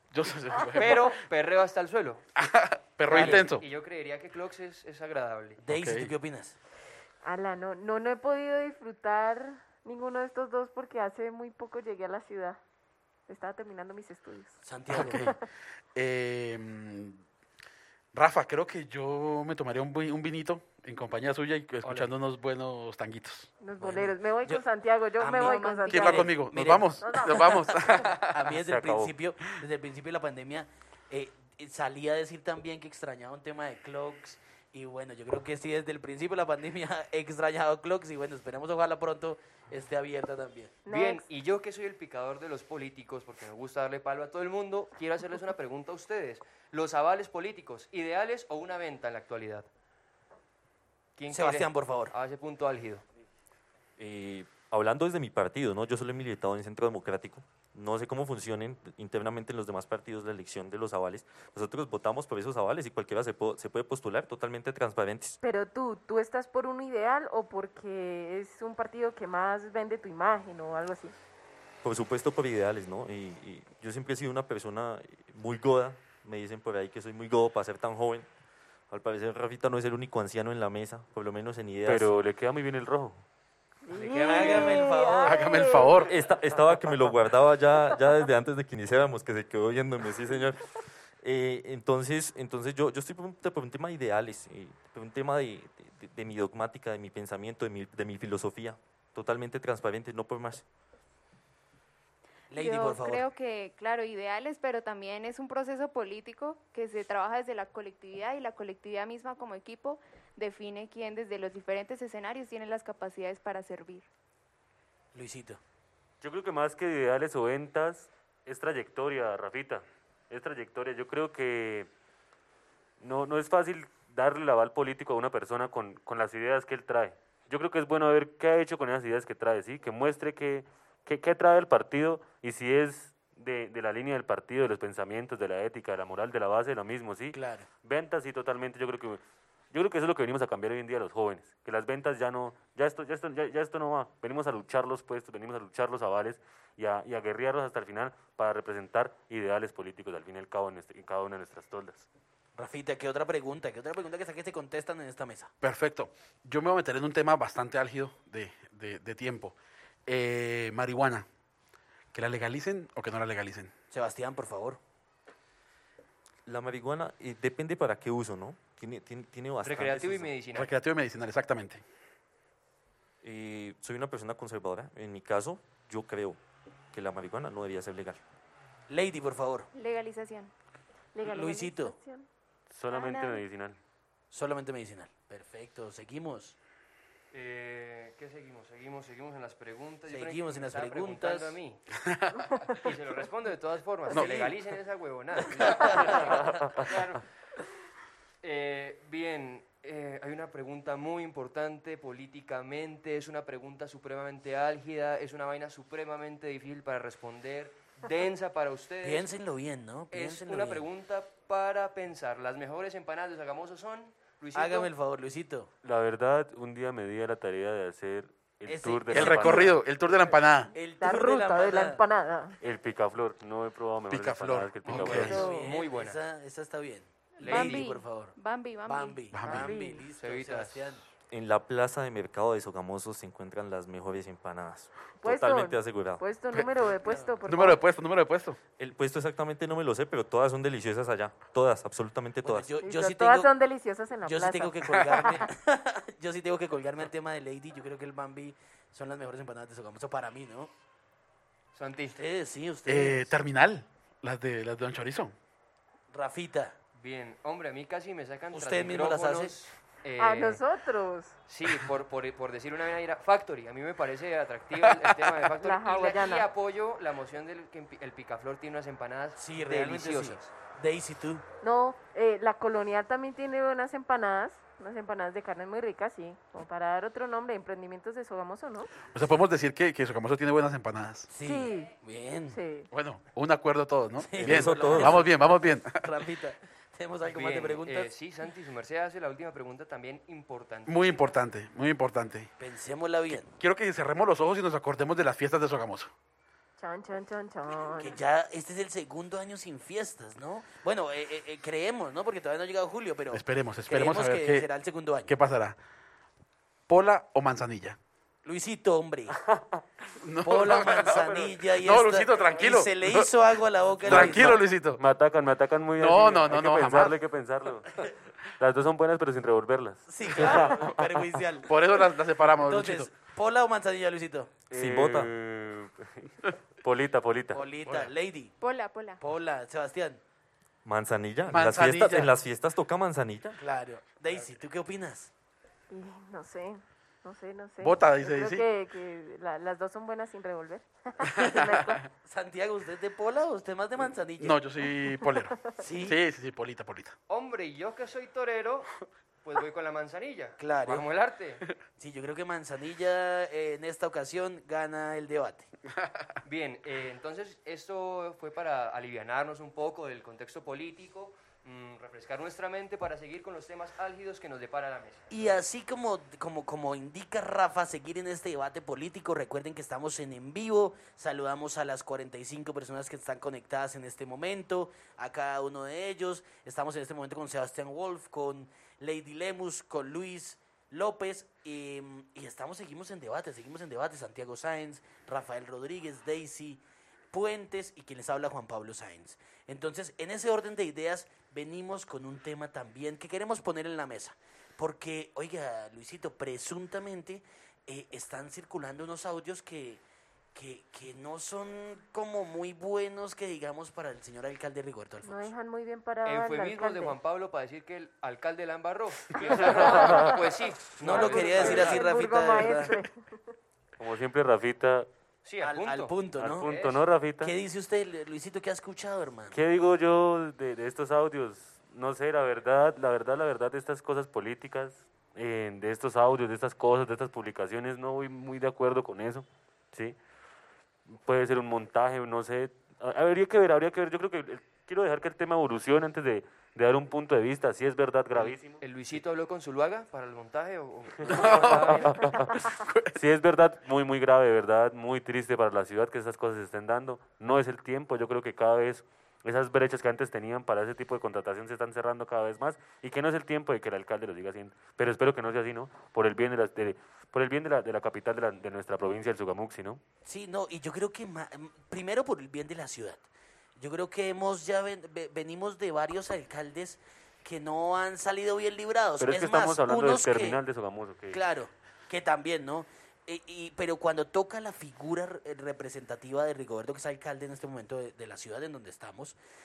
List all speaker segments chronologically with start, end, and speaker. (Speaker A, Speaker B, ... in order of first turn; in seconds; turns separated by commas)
Speaker A: 0.1-1.1, Speaker B: 0.7-2.2, Speaker A: 2.4-3.6, Speaker B: 3.0-5.6, Speaker C: 3.1-3.5, Speaker C: 5.6-6.6, Speaker A: 5.7-6.1, Speaker D: 7.2-12.6, Speaker D: 13.3-14.6, Speaker C: 14.6-15.3, Speaker A: 14.9-15.3, Speaker A: 15.9-17.2, Speaker A: 18.1-23.5, Speaker B: 21.8-22.1, Speaker D: 23.6-26.4, Speaker C: 23.8-24.6, Speaker C: 25.2-40.8, Speaker E: 25.4-26.3, Speaker A: 25.9-28.5, Speaker D: 27.0-27.9, Speaker F: 28.7-29.1, Speaker D: 40.9-41.2, Speaker B: 40.9-49.7, Speaker B: 51.2-53.0, Speaker C: 51.3-52.1, Speaker G: 54.0-65.4, Speaker D: 65.4-71.1, Speaker G: 71.8-78.3, Speaker G: 78.9-82.1, Speaker F: 81.9-83.2, Speaker D: 83.9-86.1, Speaker C: 83.9-85.4, Speaker A: 85.2-86.1, Speaker G: 86.0-100.6, Speaker C: 102.5-103.2, Speaker E: 102.6-114.1, Speaker C: 115.1-115.6, Speaker F: 116.2-121.9, Speaker F: 123.0-139.2, Speaker C: 137.3-137.7, Speaker F: 139.7-152.1, Speaker C: 152.6-155.5, Speaker A: 155.6-161.2, Speaker A: 162.1-163.7, Speaker C: 163.9-164.8, Speaker G: 166.5-170.3, Speaker B: 169.6-170.7, Speaker A: 170.5-171.8, Speaker G: 173.2-176.4, Speaker G: 176.9-178.2, Speaker C: 178.9-179.7, Speaker E: 179.7-180.5, Speaker D: 181.1-182.3, Speaker C: 181.2-181.9, Speaker F: 182.7-183.8, Speaker E: 182.9-183.4, Speaker C: 184.3-186.6, Speaker B: 187.3-191.8, Speaker C: 190.1-191.6, Speaker A: 192.0-192.4, Speaker B: 192.8-197.2, Speaker C: 194.1-194.6, Speaker A: 194.1-194.5, Speaker C: 195.5-196.3, Speaker B: 198.4-209.3, Speaker C: 209.0-210.8, Speaker B: 210.1-214.9, Speaker C: 214.5-215.7, Speaker F: 215.8-219.8, Speaker C: 218.7-219.8, Speaker A: 219.1-220.8, Speaker C: 220.7-222.0, Speaker D: 221.0-222.6, Speaker F: 222.6-225.4, Speaker A: 224.1-225.4, Speaker C: 224.9-231.0, Speaker B: 225.1-226.2, Speaker D: 225.2-225.7, Speaker E: 227.4-229.3, Speaker B: 227.4-227.9, Speaker A: 229.3-229.7, Speaker D: 229.4-230.1, Speaker B: 230.1-231.1, Speaker G: 231.3-236.2, Speaker D: 235.2-237.8, Speaker A: 236.5-236.8, Speaker A: 237.4-238.6, Speaker G: 238.8-242.7, Speaker C: 242.4-243.5, Speaker D: 242.8-245.5, Speaker C: 244.2-250.7, Speaker B: 251.8-252.2, Speaker C: 252.1-253.3, Speaker A: 252.9-255.3, Speaker C: 256.1-256.8, Speaker B: 257.0-260.6, Speaker C: 258.5-259.5, Speaker D: 260.2-261.4, Speaker B: 261.5-270.5, Speaker A: 264.9-265.2, Speaker D: 265.6-266.5, Speaker C: 269.4-271.4, Speaker D: 271.6-279.0, Speaker A: 279.0-281.3, Speaker C: 281.3-282.6, Speaker D: 281.4-281.9, Speaker D: 282.5-282.9, Speaker A: 282.9-286.0, Speaker C: 284.2-288.1, Speaker G: 284.4-285.2, Speaker B: 287.2-291.0, Speaker A: 290.9-292.5, Speaker C: 292.6-293.5, Speaker A: 293.3-296.1, Speaker D: 296.8-298.2, Speaker C: 297.9-305.3, Speaker A: 303.3-304.7, Speaker A: 305.3-305.8, Speaker A: 306.9-308.0, Speaker C: 308.4-309.4, Speaker F: 309.5-309.8, Speaker A: 310.1-313.3, Speaker C: 310.4-314.6, Speaker F: 311.1-311.6, Speaker A: 314.0-315.0, Speaker F: 314.1-321.2, Speaker A: 316.0-317.2, Speaker C: 320.1-324.5, Speaker A: 320.4-320.7, Speaker A: 321.6-323.1, Speaker F: 324.7-327.6, Speaker G: 324.7-325.3, Speaker C: 327.5-328.5, Speaker E: 328.6-329.2, Speaker C: 329.2-330.2, Speaker G: 330.9-333.6, Speaker A: 331.5-332.3, Speaker C: 333.6-335.3, Speaker D: 335.9-342.0, Speaker A: 337.8-338.7, Speaker C: 342.1-344.6, Speaker A: 344.4-347.1, Speaker D: 345.1-345.8, Speaker C: 345.8-346.2, Speaker B: 347.3-351.6, Speaker C: 350.6-351.1, Speaker C: 352.0-355.7, Speaker B: 356.4-365.3, Speaker C: 365.3-400.0, Speaker C: 400.5-405.5, Speaker D: 405.2-407.1, Speaker B: 406.2-412.1, Speaker D: 409.6-410.4, Speaker F: 409.7-410.3, Speaker C: 411.0-412.9, Speaker D: 411.1-413.2, Speaker F: 414.0-415.1, Speaker B: 415.4-417.0, Speaker C: 415.6-416.7, Speaker F: 416.4-417.5, Speaker C: 417.4-419.6, Speaker F: 419.5-430.2, Speaker F: 431.1-439.2, Speaker B: 438.3-442.2, Speaker F: 441.2-460.0, Speaker A: 441.2-442.0, Speaker A: 442.7-443.2, Speaker C: 460.2-463.2, Speaker C: 463.8-470.6, Speaker F: 469.2-471.4, Speaker C: 471.3-479.4